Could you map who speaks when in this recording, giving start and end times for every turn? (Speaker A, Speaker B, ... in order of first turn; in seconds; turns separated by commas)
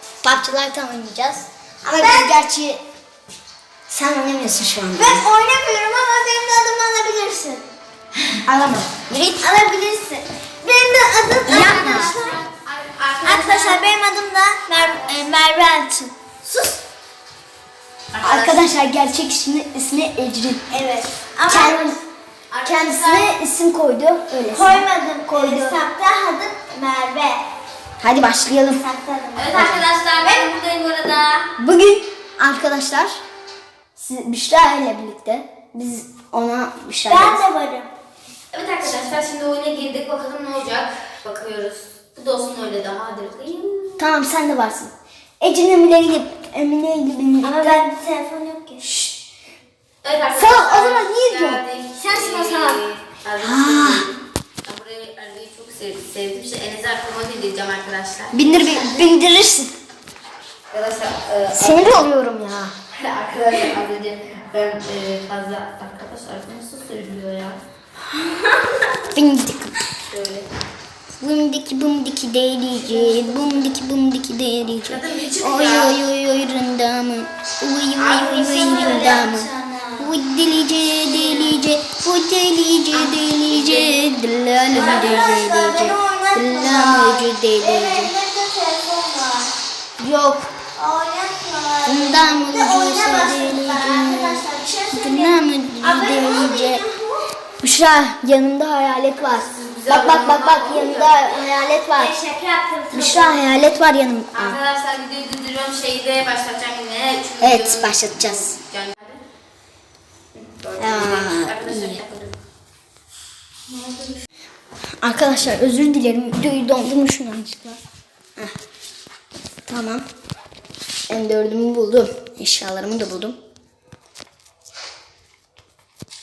Speaker A: 0.2-2.8, Speaker B: 1.8-2.3, Speaker A: 3.9-5.3, Speaker B: 5.0-7.7, Speaker A: 8.4-9.5, Speaker B: 9.3-12.4, Speaker A: 11.4-12.2, Speaker C: 11.6-13.8, Speaker B: 13.2-16.8, Speaker A: 15.0-15.8, Speaker C: 18.1-18.7, Speaker A: 18.2-20.7, Speaker B: 20.7-22.0, Speaker A: 21.5-22.0, Speaker C: 22.5-23.4, Speaker A: 22.6-25.8, Speaker B: 24.5-27.5, Speaker A: 28.0-28.8, Speaker B: 28.8-31.5, Speaker C: 29.4-31.3, Speaker A: 29.5-29.9, Speaker A: 31.6-33.2, Speaker A: 34.0-37.4, Speaker B: 37.0-37.9, Speaker C: 38.5-44.0, Speaker A: 44.0-47.9, Speaker B: 47.4-48.8, Speaker A: 48.8-49.1, Speaker C: 50.0-58.4, Speaker A: 50.3-51.6, Speaker B: 52.0-52.8, Speaker A: 53.4-54.1, Speaker A: 58.3-59.7, Speaker B: 58.5-59.1, Speaker C: 60.7-62.1, Speaker A: 61.5-62.7, Speaker C: 62.9-67.6, Speaker B: 68.2-69.1, Speaker A: 69.1-69.7, Speaker C: 70.0-70.5, Speaker A: 71.1-88.2, Speaker B: 72.8-73.5, Speaker C: 74.8-76.0, Speaker C: 78.0-79.3, Speaker B: 78.2-80.1, Speaker B: 81.0-81.7, Speaker C: 83.2-84.0, Speaker B: 84.7-89.5, Speaker A: 90.0-90.6, Speaker B: 90.7-97.3, Speaker A: 91.9-96.8, Speaker A: 97.6-102.2, Speaker C: 99.4-101.3, Speaker B: 101.5-103.4, Speaker A: 102.9-104.6, Speaker C: 104.3-109.2, Speaker A: 107.4-108.6, Speaker C: 110.4-112.4, Speaker A: 110.8-112.0, Speaker C: 113.7-114.2, Speaker A: 115.0-117.8, Speaker A: 119.7-120.0, Speaker A: 121.1-123.4